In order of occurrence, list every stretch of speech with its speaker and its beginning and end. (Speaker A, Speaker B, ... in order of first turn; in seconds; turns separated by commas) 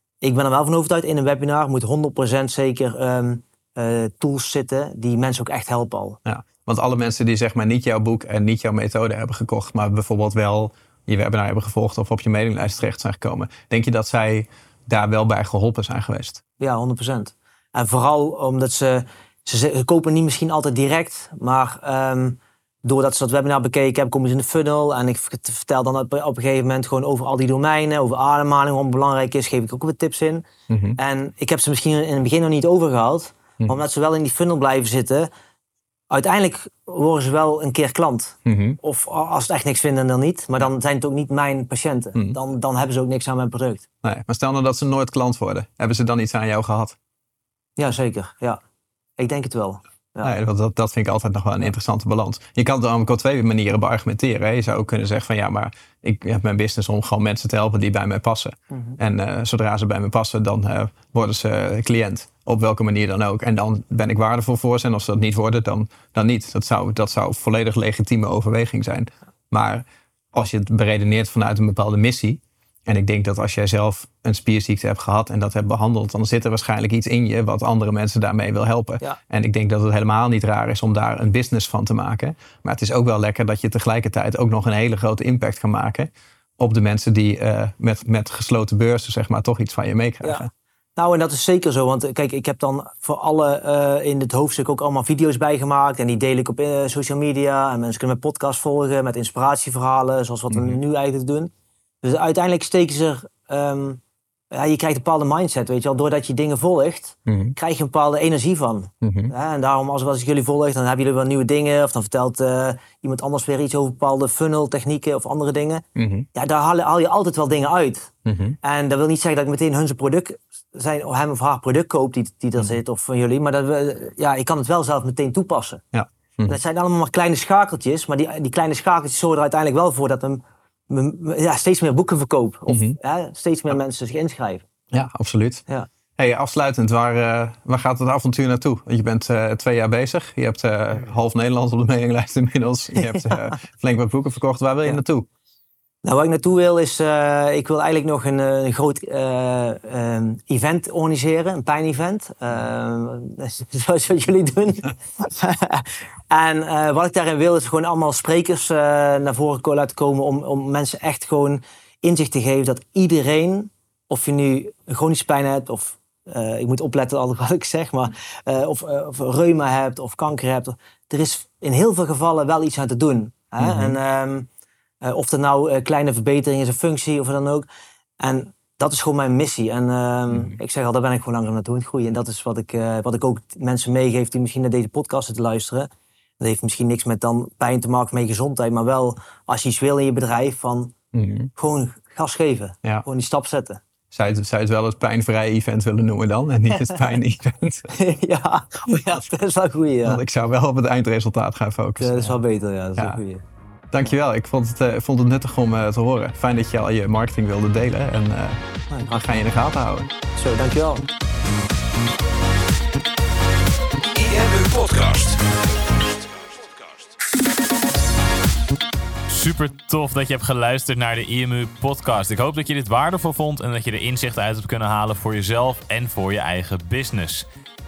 Speaker A: 0.2-6.2, Speaker B: 6.2-16.4, Speaker A: 16.6-30.4, Speaker B: 30.7-31.0, Speaker A: 31.0-35.3, Speaker A: 36.1-43.8, Speaker B: 38.5-38.8, Speaker B: 44.0-47.0, Speaker A: 47.8-48.6, Speaker A: 49.2-50.3, Speaker B: 50.2-90.5, Speaker A: 58.7-59.0, Speaker A: 90.2-101.5, Speaker B: 100.5-100.8, Speaker A: 102.0-115.8, Speaker B: 107.2-107.5, Speaker B: 109.0-109.3, Speaker B: 116.0-116.3, Speaker A: 116.3-125.8, Speaker B: 118.2-118.6, Speaker B: 125.9-126.6, Speaker A: 126.5-134.7, Speaker B: 132.7-133.0, Speaker B: 134.9-135.6, Speaker B: 136.2-145.3, Speaker A: 143.0-143.6, Speaker A: 146.0-174.5, Speaker B: 173.6-174.0, Speaker A: 175.0-177.7, Speaker A: 178.2-185.9, Speaker A: 186.4-190.9, Speaker B: 191.1-191.5, Speaker A: 191.6-193.8, Speaker B: 194.1-197.9, Speaker A: 197.9-200.2, Speaker B: 200.0-202.4, Speaker A: 202.0-203.4, Speaker B: 203.9-210.1, Speaker A: 208.9-209.2, Speaker A: 210.3-211.1, Speaker C: 214.0-217.2, Speaker D: 219.3-227.4